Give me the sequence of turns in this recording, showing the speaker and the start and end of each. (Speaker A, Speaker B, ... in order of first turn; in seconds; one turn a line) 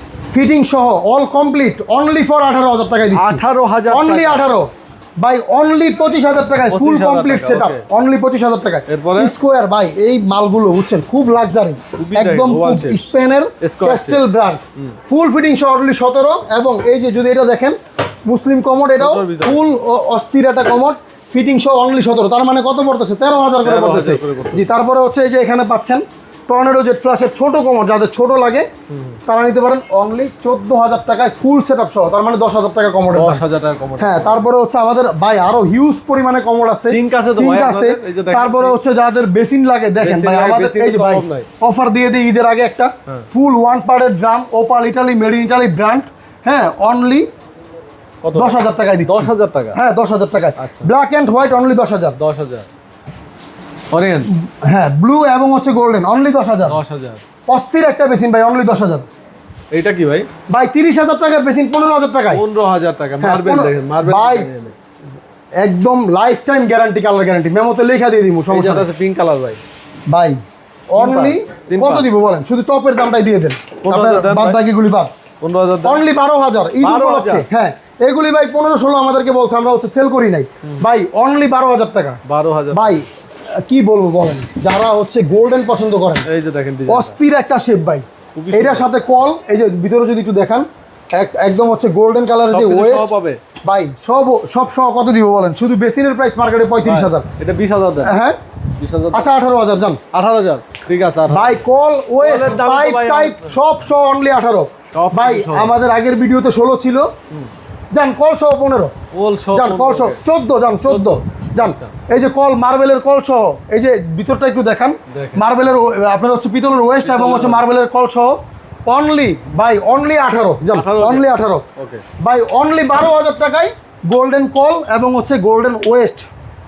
Speaker A: 0.3-28.7
Speaker B: 3.1-4.5
Speaker B: 6.7-7.8
Speaker B: 8.9-9.3
Speaker B: 12.0-13.0
Speaker B: 13.6-14.2
Speaker B: 19.0-19.6
Speaker B: 23.6-24.6
Speaker B: 28.9-29.2
Speaker A: 29.3-33.4
Speaker B: 33.1-34.4
Speaker A: 34.0-47.3
Speaker B: 36.9-38.8
Speaker B: 40.0-41.5
Speaker B: 48.2-49.8
Speaker A: 48.4-52.2
Speaker B: 50.6-50.9
Speaker B: 52.2-52.7
Speaker B: 53.9-54.3
Speaker A: 54.3-56.8
Speaker B: 56.7-57.2
Speaker A: 57.5-59.1
Speaker B: 59.7-60.3
Speaker A: 60.5-62.4
Speaker B: 62.3-64.8
Speaker A: 63.2-64.5
Speaker A: 65.6-68.9
Speaker B: 68.5-69.6
Speaker A: 70.1-70.4
Speaker A: 70.9-75.1
Speaker B: 71.0-72.1
Speaker B: 73.8-74.6
Speaker B: 75.4-76.1
Speaker A: 75.8-82.2
Speaker B: 76.8-77.5
Speaker B: 82.2-83.0
Speaker A: 82.7-83.1
Speaker A: 83.6-86.3
Speaker B: 86.3-87.1
Speaker A: 86.9-93.1
Speaker B: 88.3-88.9
Speaker B: 92.5-93.4
Speaker A: 93.6-97.3
Speaker B: 96.8-98.2
Speaker A: 98.0-98.4
Speaker B: 98.8-99.3
Speaker A: 99.1-100.0
Speaker B: 100.1-101.6
Speaker A: 101.3-107.1
Speaker B: 102.2-103.5
Speaker B: 104.9-105.7
Speaker A: 107.9-108.9
Speaker B: 109.1-110.2
Speaker A: 109.5-121.7
Speaker B: 110.9-111.9
Speaker B: 115.1-115.5
Speaker B: 117.0-117.7
Speaker B: 120.7-122.0
Speaker A: 122.2-126.3